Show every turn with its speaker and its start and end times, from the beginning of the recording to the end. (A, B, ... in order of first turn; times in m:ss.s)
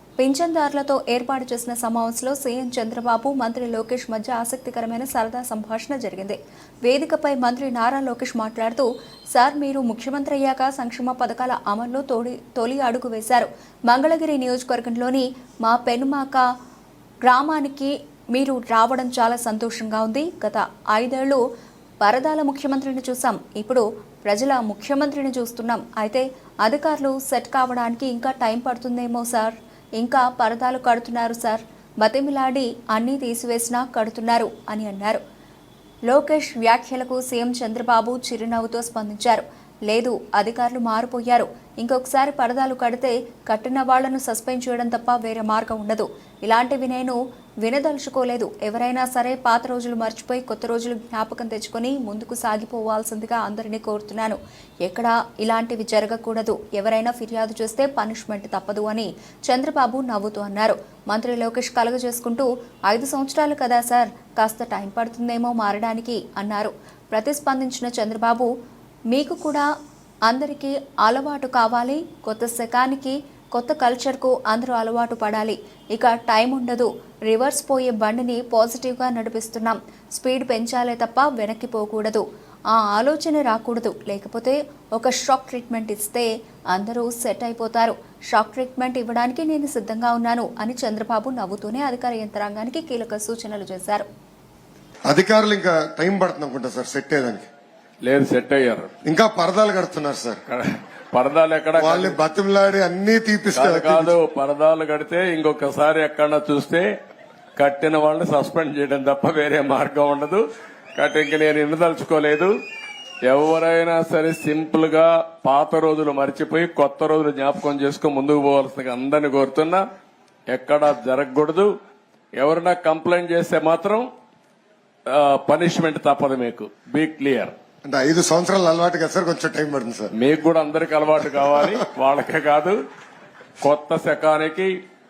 0:00.2-0:16.4 A
0:17.2-0:21.4 A
0:22.0-0:35.2 A
0:36.1-1:08.5 A
1:09.1-1:09.7 A
1:10.3-1:34.1 A
1:35.1-1:37.5 B
1:38.0-1:38.9 C
1:39.0-1:40.4 B
1:40.5-1:42.2 C
1:41.8-1:44.2 B
1:43.5-1:46.9 C
1:47.6-1:50.4 C
1:51.0-1:52.5 C
1:53.3-1:59.8 C
2:00.5-2:01.7 C
2:02.4-2:04.1 C
2:05.1-2:07.6 C
2:07.8-2:10.1 B
2:10.2-2:12.8 C
2:13.6-2:14.7 C